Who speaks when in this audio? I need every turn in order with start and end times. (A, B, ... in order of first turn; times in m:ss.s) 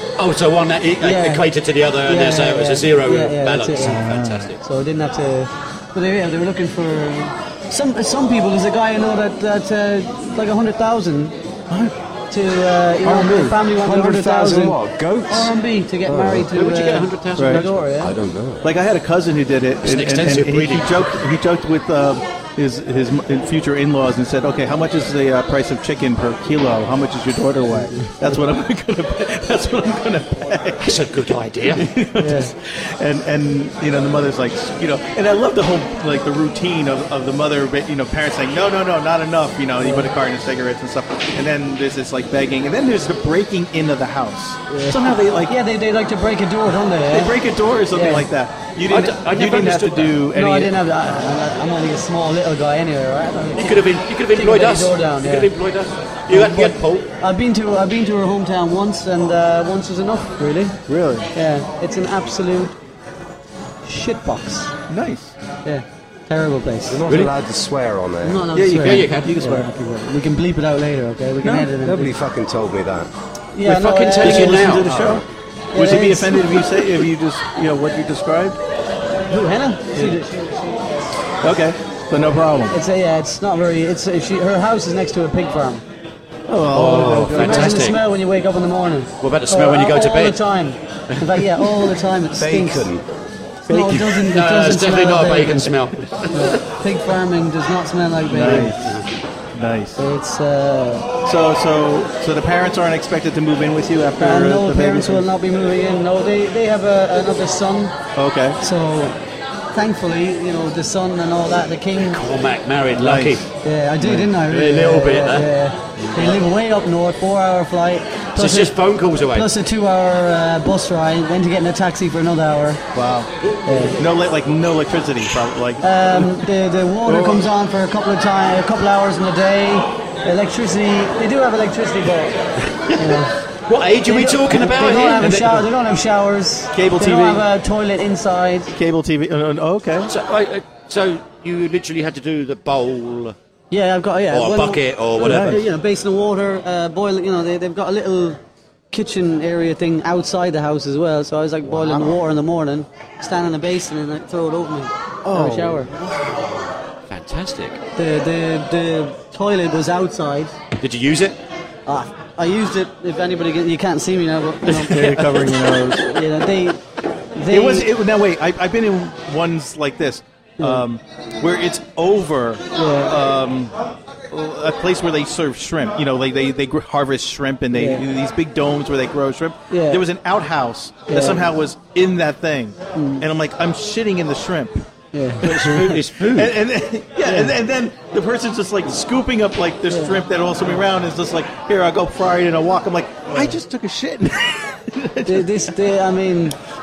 0:00.2-0:04.6 A
0:01.0-0:01.4 B
0:02.0-0:04.0 B
0:03.8-0:04.5 C
0:04.6-0:11.4 B
0:12.3-0:14.8 B
0:13.0-0:13.6 C
0:13.8-0:15.5 D
0:15.3-0:18.2 B
0:16.1-0:16.5 D
0:16.6-0:17.8 A
0:17.4-0:17.6 C
0:18.0-0:18.7 D
0:18.6-0:31.0 C
0:19.8-0:21.1 A
0:27.7-0:28.2 B
0:30.8-0:31.9 A
0:31.7-0:45.6 C
0:32.2-0:32.5 B
0:39.8-0:40.1 B
0:44.7-0:47.4 B
0:47.1-0:50.8 C
0:47.9-0:48.3 B
0:48.9-0:50.2 A
0:50.3-0:55.5 B
0:53.6-0:57.1 A
0:56.3-1:00.8 B
1:00.9-1:01.3 C
1:01.3-1:02.8 B
1:03.8-1:04.7 B
1:04.9-1:05.4 C
1:05.6-1:07.0 B
1:06.9-1:08.4 D
1:07.1-1:07.3 A
1:08.2-1:12.1 B
1:08.5-1:09.7 C
1:08.8-1:09.4 A
1:11.4-1:11.7 C
1:11.8-1:13.1 D
1:13.5-1:14.7 B
1:13.6-1:15.2 A
1:14.2-1:18.6 C
1:15.7-1:16.5 B
1:19.3-1:21.1 B
1:21.4-1:22.8 C
1:22.7-1:25.8 B
1:26.5-1:27.9 C
1:26.7-1:28.0 A
1:27.3-1:32.9 B
1:29.2-1:30.4 A
1:31.1-1:31.7 A
1:32.4-1:33.0 D
1:33.7-1:35.7 B
1:33.7-1:34.1 C
1:34.1-1:36.6 A
1:36.3-1:38.8 B
1:38.3-1:39.0 C
1:39.5-1:40.0 C
1:40.0-1:41.1 B
1:41.2-1:45.3 C
1:44.2-1:48.0 B
1:48.2-1:48.6 C
1:48.6-1:49.2 B
1:49.7-1:52.2 B
1:52.1-1:53.5 A
1:53.0-1:53.4 C
1:53.6-1:58.7 B
1:54.0-1:54.3 C
1:54.5-1:55.5 A
1:56.0-1:56.4 A
1:58.4-1:59.5 A
1:59.3-2:02.8 B
2:02.9-2:03.3 C
2:03.7-2:04.0 B
2:04.0-2:06.5 C
2:05.8-2:13.3 B
2:07.0-2:07.5 C
2:13.7-2:15.6 A
2:14.0-2:18.7 B
2:15.2-2:15.6 C
2:16.7-2:17.4 C
2:18.7-2:20.1 C
2:20.1-2:23.4 A
2:23.7-2:28.4 B
2:24.3-2:25.6 A
2:25.2-2:25.6 C
2:28.9-2:35.9 B
2:31.7-2:32.1 C
2:35.2-2:36.1 C
2:37.1-2:37.8 A
2:38.0-2:40.6 B
2:40.8-2:41.4 A
2:41.9-2:45.3 B
2:44.7-2:45.5 A
2:44.9-2:46.1 C
2:45.9-2:46.8 B
2:47.4-2:47.9 B
2:47.5-2:53.7 C
2:50.6-2:50.8 B
2:52.8-2:53.2 B
2:54.3-3:04.9 C
2:57.7-2:58.0 B
2:59.7-3:00.0 B
3:01.1-3:01.5 B
3:03.0-3:03.3 B
3:05.1-3:06.0 B
3:05.4-3:06.6 A
3:05.4-3:15.7 C
3:07.2-3:07.6 B
3:09.9-3:10.2 B
3:15.2-3:16.6 B